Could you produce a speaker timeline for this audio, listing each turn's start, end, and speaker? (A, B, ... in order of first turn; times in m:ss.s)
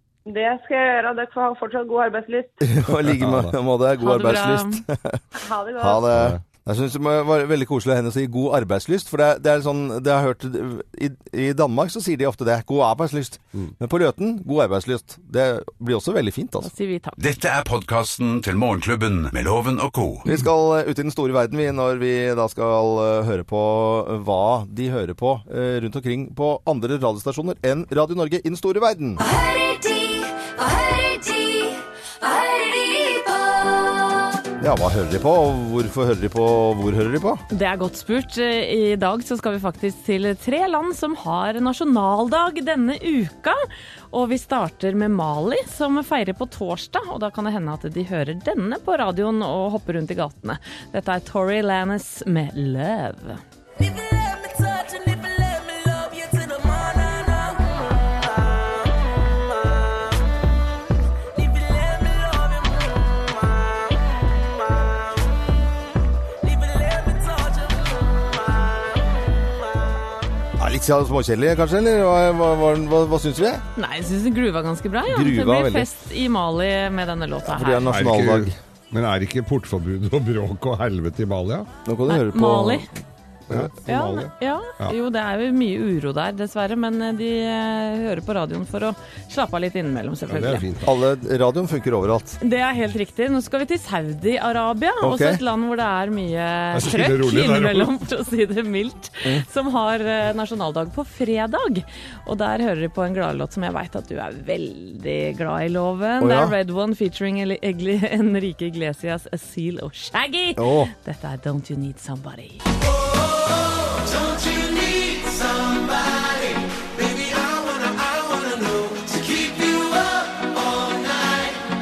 0:00.3-0:02.5 A
0:02.6-0:05.2 B
0:03.1-0:03.5 C
0:04.0-0:04.8 D
0:05.4-0:06.0 A
0:05.8-0:16.7 B
0:06.1-0:06.4 C
0:16.6-0:17.2 D
0:17.2-0:20.2 E
0:20.2-0:29.2 B
0:29.2-0:34.3 F
0:34.6-0:37.4 B
0:37.5-0:53.4 D
0:53.8-0:58.9 G
0:59.6-1:00.0 G
1:01.4-1:04.0 G
1:06.4-1:08.7 G
1:10.6-1:13.6 B
1:13.8-1:17.8 D
1:15.1-1:15.9 B
1:17.4-1:18.6 B
1:17.9-1:21.7 C
1:21.8-1:22.9 B
1:22.1-1:22.9 D
1:23.5-1:24.9 C
1:23.9-1:30.6 D
1:30.3-1:30.9 C
1:30.8-1:32.4 B
1:32.4-1:52.6 D
1:35.0-1:35.4 B
1:36.7-1:37.9 C
1:46.2-1:46.5 B
1:50.6-1:50.9 B
1:53.6-2:01.6 G